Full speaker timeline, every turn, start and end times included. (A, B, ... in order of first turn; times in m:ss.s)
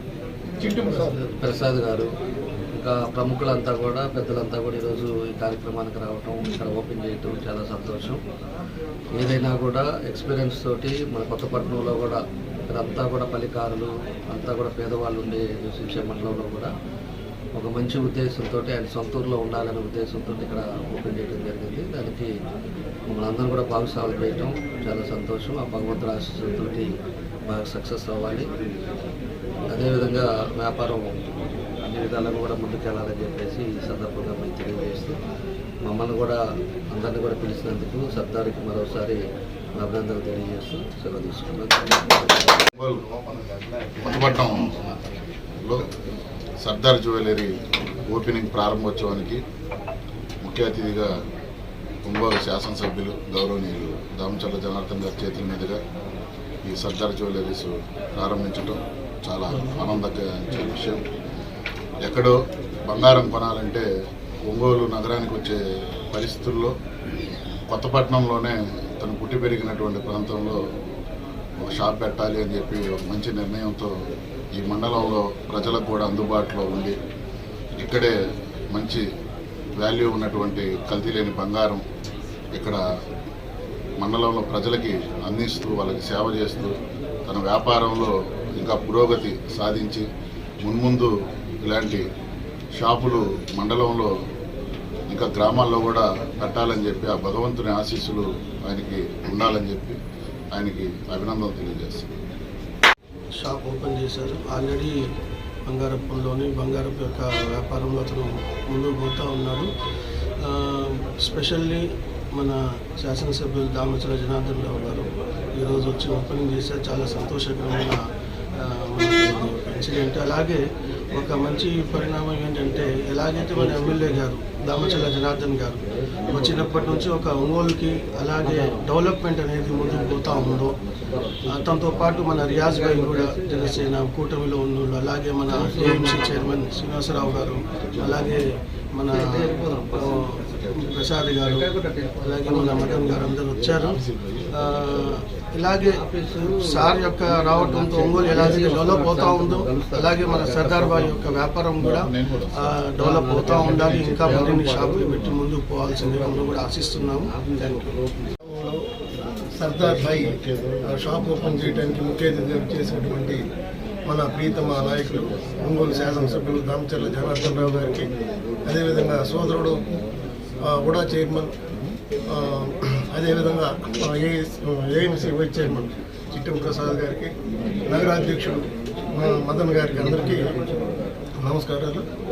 0:00.7-0:01.1 A
0:00.9-0:02.1 B
0:02.7-0:08.2 B
0:09.2-0:16.7 B
0:17.6-0:22.3 B
0:23.1-0:26.9 B
0:27.5-0:28.5 B
0:29.7-0:35.2 B
0:35.8-0:36.4 B
0:36.9-0:39.2 B
0:39.7-0:42.6 B
0:42.7-0:43.1 C
0:44.0-0:44.8 C
0:46.6-0:47.5 C
0:48.1-0:49.4 C
0:50.4-0:51.1 C
0:52.1-0:55.8 C
0:56.6-1:01.0 C
1:02.0-1:02.3 C
1:02.9-1:03.9 C
1:04.5-1:06.7 C
1:07.7-1:10.6 C
1:11.6-1:13.9 C
1:14.6-1:17.0 C
1:17.8-1:18.2 C
1:18.7-1:19.0 C
1:19.8-1:21.8 C
1:22.5-1:22.8 C
1:24.0-1:30.1 C
1:30.6-1:32.0 C
1:32.8-1:34.1 C
1:35.1-1:40.0 C
1:40.5-1:42.2 C
1:43.4-1:45.1 D
1:45.6-1:49.7 D
1:50.4-1:58.0 D
1:58.6-2:10.8 D
2:06.2-2:07.0 B
2:08.4-2:08.8 B
2:09.7-2:13.9 B
2:11.4-2:21.7 D
2:15.5-2:16.5 B
2:19.1-2:20.8 B
2:21.4-2:23.8 B
2:22.2-2:37.8 D
2:23.9-2:25.2 C
2:25.8-2:31.3 B
2:31.8-2:32.6 C
2:33.0-2:35.4 B
2:36.0-2:38.3 B
2:38.4-2:38.9 A
2:39.5-2:43.4 A
2:40.2-2:40.7 C
2:44.1-2:48.1 A
2:48.6-2:49.9 A
2:50.6-2:51.6 A
2:52.2-2:57.3 A
2:57.8-3:00.5 A
3:01.4-3:02.1 A